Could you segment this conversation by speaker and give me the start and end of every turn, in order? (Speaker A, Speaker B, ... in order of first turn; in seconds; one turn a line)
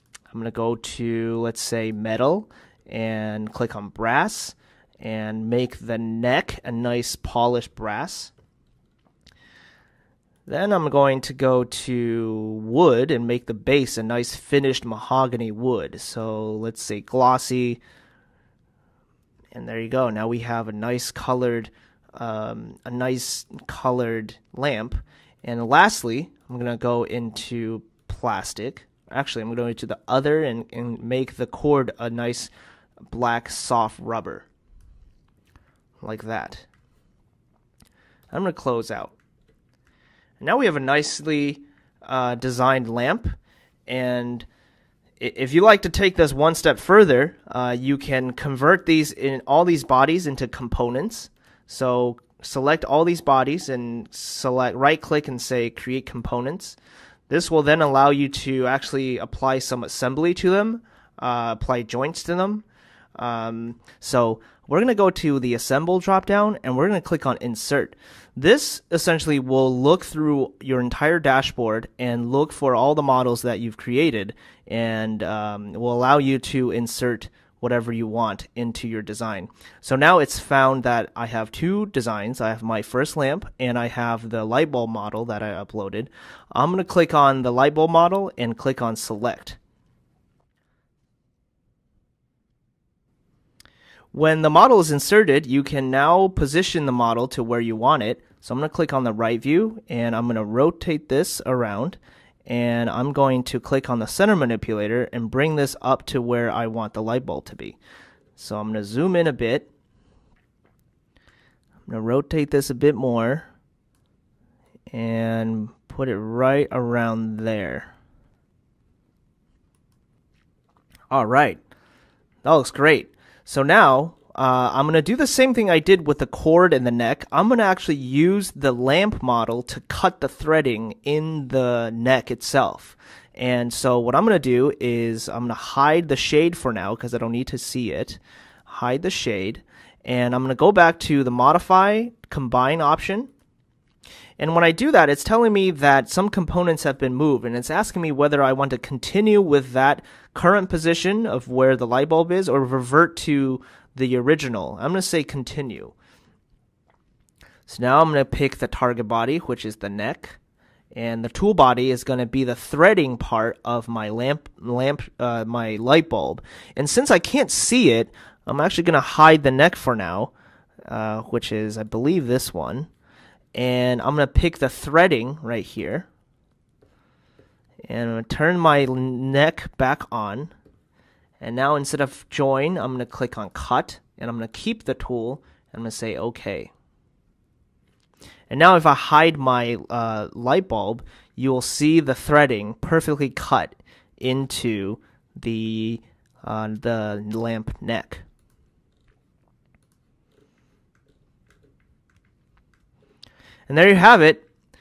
Speaker A: 0.3-8.3
Speaker A: 10.5-17.8
Speaker A: 19.5-32.5
Speaker A: 33.1-34.5
Speaker A: 36.0-36.6
Speaker A: 38.3-39.1
Speaker A: 40.4-43.3
Speaker A: 43.9-44.5
Speaker A: 45.2-56.8
Speaker A: 57.3-62.6
Speaker A: 63.2-89.6
Speaker A: 94.1-107.8
Speaker A: 108.3-109.7
Speaker A: 111.9-113.5
Speaker A: 114.9-117.9
Speaker A: 121.1-121.6
Speaker A: 122.4-143.3
Speaker A: 144.4-155.9
Speaker A: 157.7-160.4
Speaker A: 160.9-170.3
Speaker A: 170.9-172.9
Speaker A: 173.5-176.1
Speaker A: 177.8-180.5
Speaker A: 181.4-186.7
Speaker A: 188.5-198.2
Speaker A: 203.7-204.5